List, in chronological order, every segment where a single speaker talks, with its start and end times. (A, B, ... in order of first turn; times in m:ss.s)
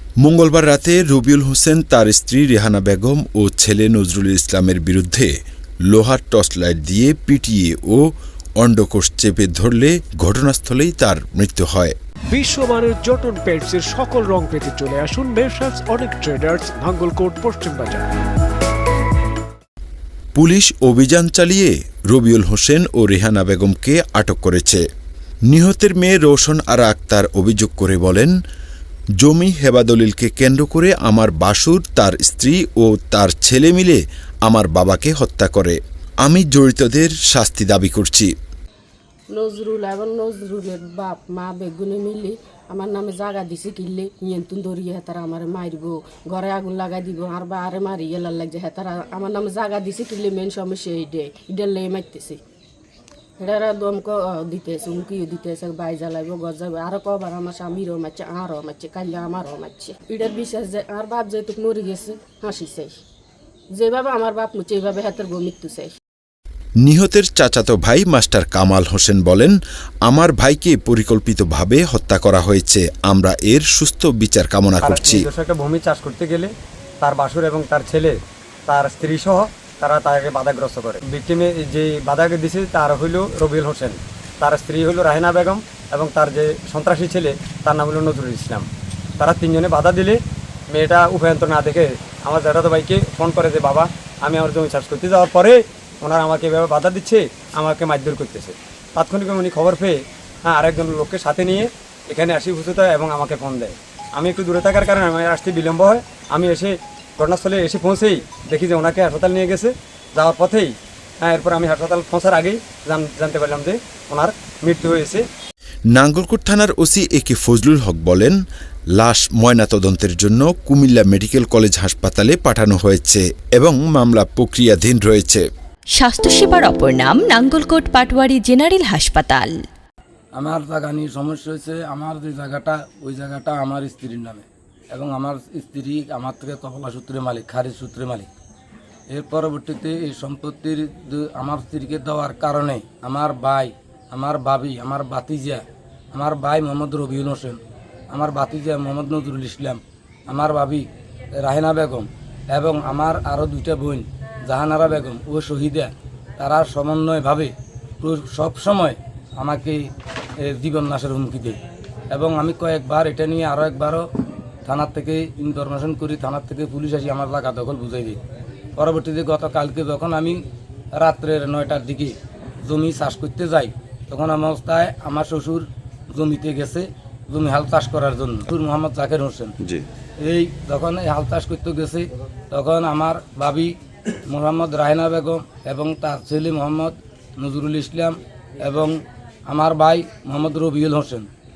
0:00.2-0:05.3 A
0:05.9-0:08.0 A
0:08.6-0:11.9 A
0:12.3-0:18.1 B
0:20.3-0:24.8 A
0:25.5-0:28.3 A
0:29.2-0:38.3 A
0:39.3-0:52.4 C
0:53.4-1:02.9 C
1:03.7-1:05.9 C
1:06.8-1:15.3 A
1:14.8-1:16.5 D
1:17.0-1:18.1 D
1:18.7-1:28.7 D
1:29.2-1:30.2 D
1:30.7-1:40.0 D
1:40.5-1:55.2 D
1:55.9-1:58.4 A
1:59.0-2:05.4 A
2:05.9-2:09.6 E
2:10.4-2:18.3 F
2:19.1-2:27.6 F
2:28.1-2:30.9 F
2:31.4-2:39.9 F
2:40.4-2:41.6 F
2:42.1-2:44.1 F
2:44.6-2:48.2 F
2:48.8-2:50.4 F
2:51.0-2:59.5 F
3:00.2-3:03.7 F
3:04.3-3:08.9 F
3:09.5-3:11.3 F